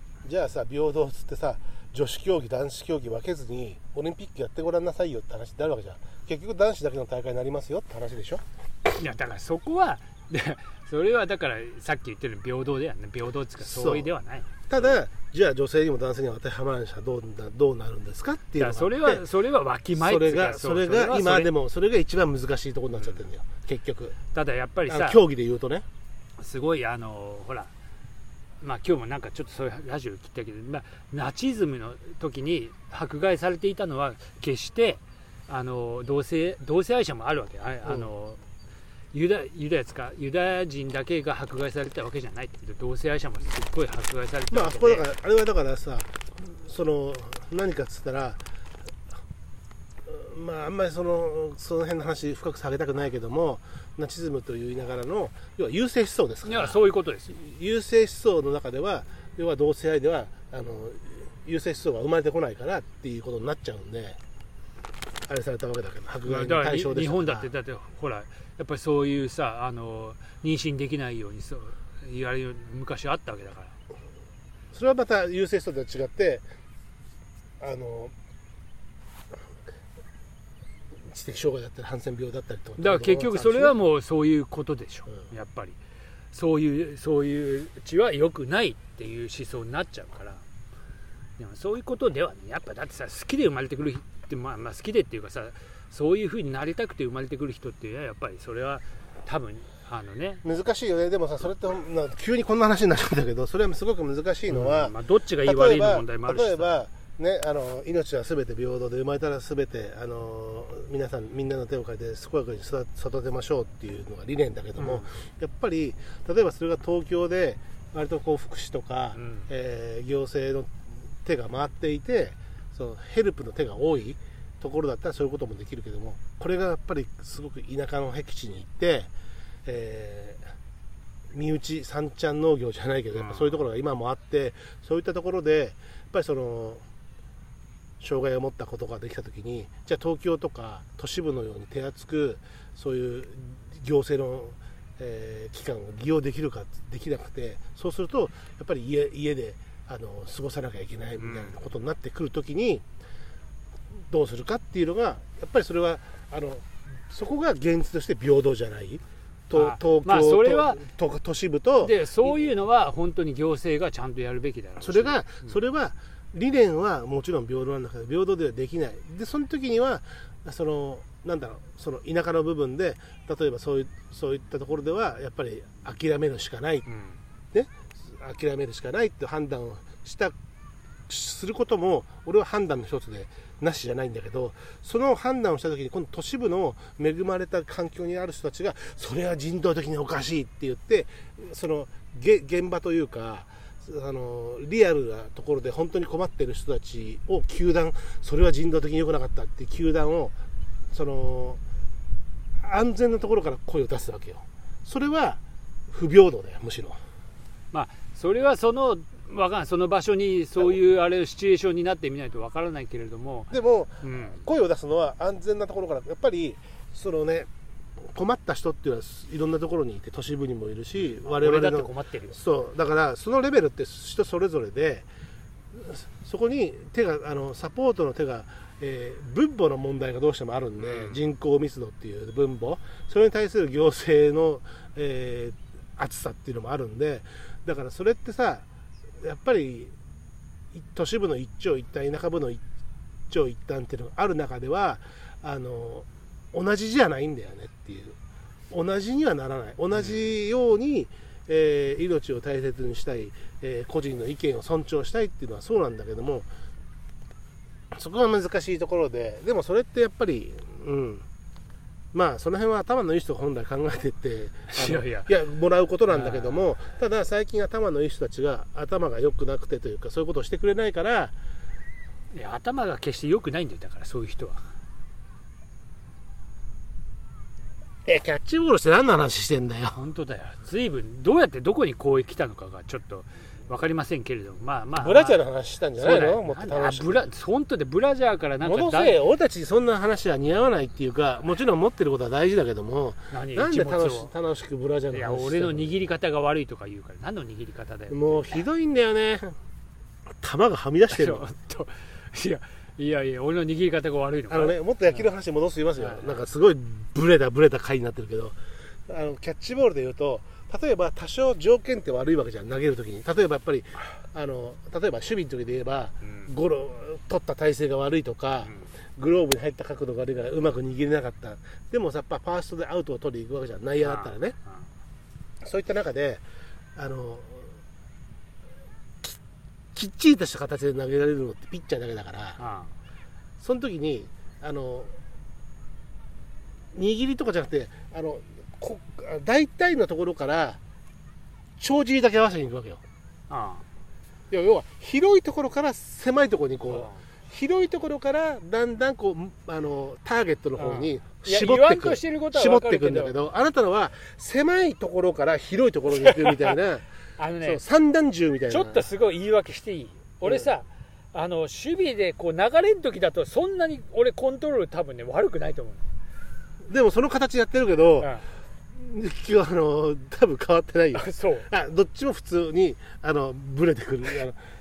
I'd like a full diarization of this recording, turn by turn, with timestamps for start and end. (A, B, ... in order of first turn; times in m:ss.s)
0:00.2-0:08.4 A
0:08.9-0:15.0 B
0:13.6-0:14.1 A
0:14.7-0:19.2 A
0:18.6-0:21.5 B
0:19.9-0:24.2 A
0:22.9-0:23.2 B
0:24.3-0:25.2 B
0:24.9-0:25.8 A
0:26.4-0:27.7 B
0:28.6-0:38.4 B
0:37.8-0:38.1 A
0:39.1-0:45.1 B
0:44.5-0:48.4 A
0:50.0-1:04.2 A
0:56.4-0:57.4 B
1:05.3-1:07.5 A
1:06.2-1:13.7 B
1:14.7-1:16.4 A
1:17.6-1:18.1 A
1:21.0-1:23.7 A
1:22.8-1:25.8 B
1:26.3-1:30.4 B
1:31.4-1:40.4 B
1:40.4-2:09.1 A
1:44.5-1:46.7 B
1:54.8-1:55.1 B
1:59.1-1:59.5 B
2:09.6-2:10.5 A
2:11.3-2:16.8 A
2:13.1-2:13.6 B
2:18.0-2:32.8 A
2:31.2-2:31.6 B
2:34.1-2:42.5 A
2:39.5-2:40.9 B
2:41.8-2:45.6 B
2:44.8-2:56.9 A
2:56.8-2:57.2 B
2:57.5-3:00.3 A
3:01.1-3:20.3 A
3:20.9-3:21.6 A
3:22.6-3:27.0 A
3:27.7-3:34.4 B
3:33.5-3:37.5 A
3:38.1-3:45.0 A
3:41.0-3:42.4 B
3:45.7-3:58.6 A
3:50.8-3:51.2 B
3:59.2-3:59.9 A
4:00.7-4:02.6 A
4:03.3-4:08.2 A
4:08.7-4:16.5 A
4:09.9-4:10.2 B
4:17.9-4:21.2 A
4:22.1-4:31.3 A
4:24.7-4:25.3 B
4:26.1-4:26.7 B
4:32.3-4:34.7 B
4:38.0-4:40.0 A
4:39.9-4:45.4 B
4:45.0-4:47.3 A
4:46.0-4:49.2 B
4:48.6-4:55.9 A
4:53.3-4:54.3 B
4:55.1-4:58.7 B
4:58.1-4:59.6 A
5:00.4-5:01.5 A
5:01.1-5:05.3 B
5:04.5-5:24.6 A
5:06.0-5:06.5 B
5:16.2-5:16.5 B
5:18.6-5:18.9 B
5:24.0-5:24.9 B
5:25.6-5:26.4 A
5:27.0-5:27.7 A
5:29.9-5:32.6 A
5:32.6-5:32.9 B
5:33.6-5:35.1 A
5:36.9-5:40.8 A
5:41.8-5:43.0 A
5:43.5-5:43.8 B
5:44.5-5:57.0 A
5:46.9-5:47.2 B
5:50.8-5:53.4 B
5:56.2-5:56.5 B
5:57.4-5:57.8 B
5:57.6-5:59.0 A
5:58.7-6:06.1 B
6:06.9-6:08.3 A
6:08.2-6:08.5 B
6:08.9-6:14.6 A
6:11.1-6:11.7 B